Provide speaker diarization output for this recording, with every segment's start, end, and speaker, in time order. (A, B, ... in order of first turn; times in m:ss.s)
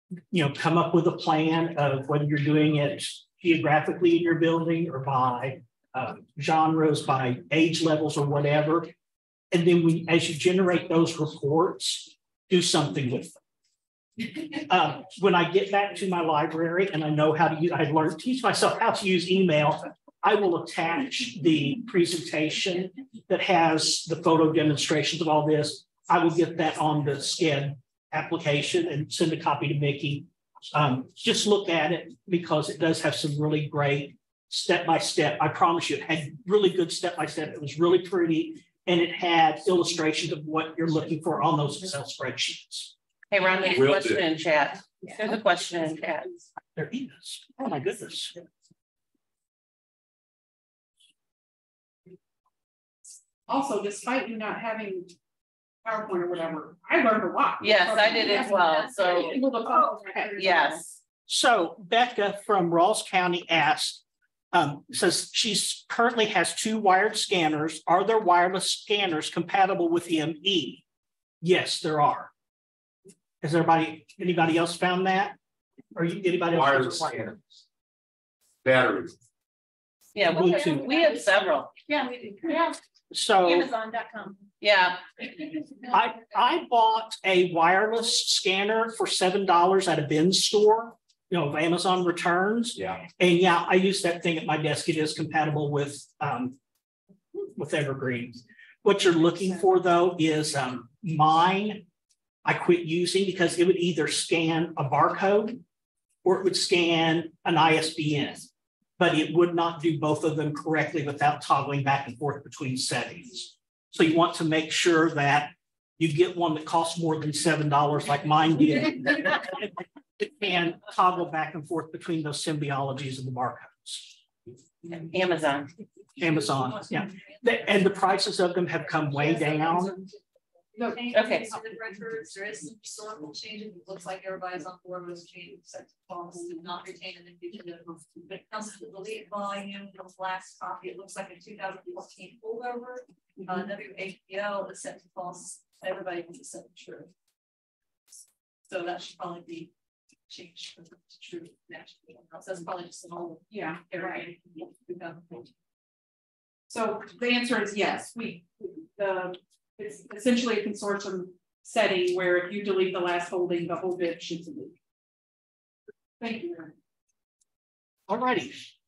0:00.3-0:08.9 A
0:09.5-0:13.4 A
0:14.7-0:42.9 A
0:43.3-0:46.4 B
0:43.7-0:44.3 C
0:46.8-0:48.3 A
0:53.5-0:55.1 D
0:55.8-1:01.0 D
0:57.6-0:59.5 B
0:58.4-0:58.7 E
1:00.3-1:00.8 B
1:01.3-1:10.8 A
1:11.4-1:12.3 A
1:13.4-1:15.4 A
1:16.0-1:17.3 A
1:16.5-1:17.5 C
1:18.6-1:19.2 C
1:20.2-1:21.7 B
1:20.3-1:20.9 A
1:20.6-1:21.1 E
1:21.9-1:22.4 E
1:23.1-1:23.7 A
1:23.7-1:24.4 E
1:24.6-1:25.0 B
1:25.9-1:36.6 A
1:32.8-1:33.0 C
1:37.6-1:41.8 A
1:42.4-1:45.6 A
1:46.2-2:04.2 A
2:04.8-2:05.7 B
2:06.2-2:10.0 A
2:09.4-2:10.1 E
2:10.8-2:27.1 E
2:11.1-2:11.5 B
2:28.7-2:29.7 E
2:30.3-2:35.5 E
2:33.5-2:34.1 D
2:36.7-2:44.8 D
2:46.2-2:46.7 D
2:48.1-2:48.6 A